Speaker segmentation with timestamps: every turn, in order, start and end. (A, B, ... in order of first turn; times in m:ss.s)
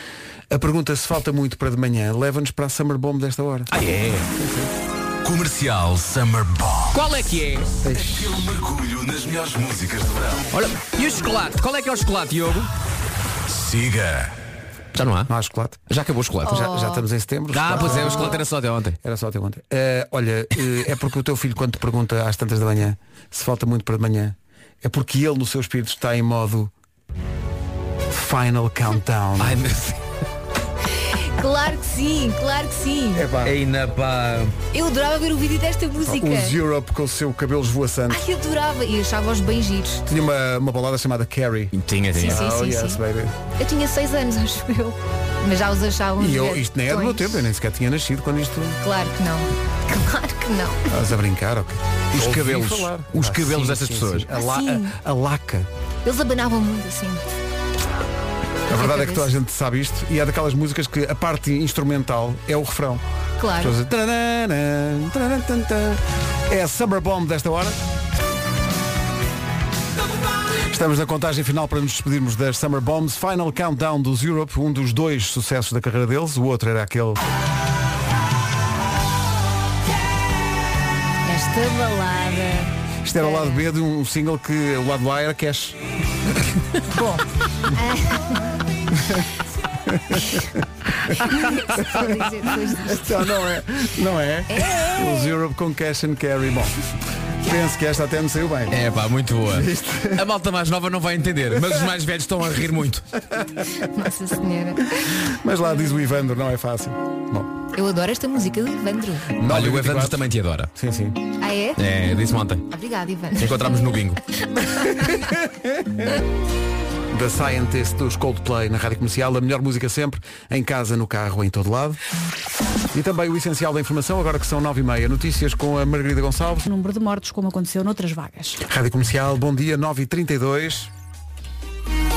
0:00.5-0:03.7 A
0:03.7-0:04.3 B
0:04.4-0:04.7 A
0:05.2-0:07.0 C
0:06.9-0:07.7 B
0:07.8-0:08.4 A
0:07.9-0:10.5 C
0:10.5-0:12.7 B
0:13.5-0:14.4 C
0:15.0-0:15.3 B
0:15.3-0:15.8 A
0:15.9-0:16.7 B
0:16.4-0:18.4 A
0:16.5-0:17.0 D
0:17.5-0:19.0 B
0:18.0-0:18.3 D
0:19.0-0:26.7 A
0:28.1-0:29.6 A
0:29.4-0:30.0 B
0:31.2-0:33.3 D
0:33.1-0:33.6 A
0:33.4-0:34.6 B
0:34.7-0:36.6 D
0:36.0-0:38.2 A
0:38.1-0:40.0 D
0:40.1-0:43.4 A
0:41.7-0:42.4 B
0:42.2-0:43.0 D
0:43.6-0:47.4 D
0:46.2-0:48.8 A
0:48.8-0:50.8 D
0:50.9-0:55.7 A
0:52.1-0:54.3 B
0:54.3-0:55.0 D
0:56.0-0:57.2 D
0:58.7-1:03.0 A
0:58.7-0:59.3 D
1:03.4-1:03.8 D
1:03.6-1:07.8 A
1:10.7-1:17.2 A
1:21.2-1:23.7 D
1:23.0-1:25.8 A
1:27.0-1:27.2 A
1:27.7-1:28.6 D
1:28.9-1:29.3 A
1:29.8-1:30.6 A
1:31.2-1:33.2 D
1:31.5-1:36.8 A
1:34.5-1:35.3 D
1:37.4-1:38.8 A
1:38.7-1:43.1 B
1:39.5-1:40.3 A
1:43.3-1:43.6 A
1:43.8-1:45.1 D
1:45.0-1:47.5 A
1:47.7-1:49.4 D
1:49.4-1:51.2 A
1:49.5-1:50.7 B
1:51.4-1:51.8 D
1:51.8-1:52.7 B
1:52.7-1:53.7 D
1:53.4-1:54.2 B
1:54.8-1:56.2 A
1:57.1-2:02.0 A
2:02.9-2:06.7 A
2:06.7-2:08.6 E
2:08.6-2:10.9 A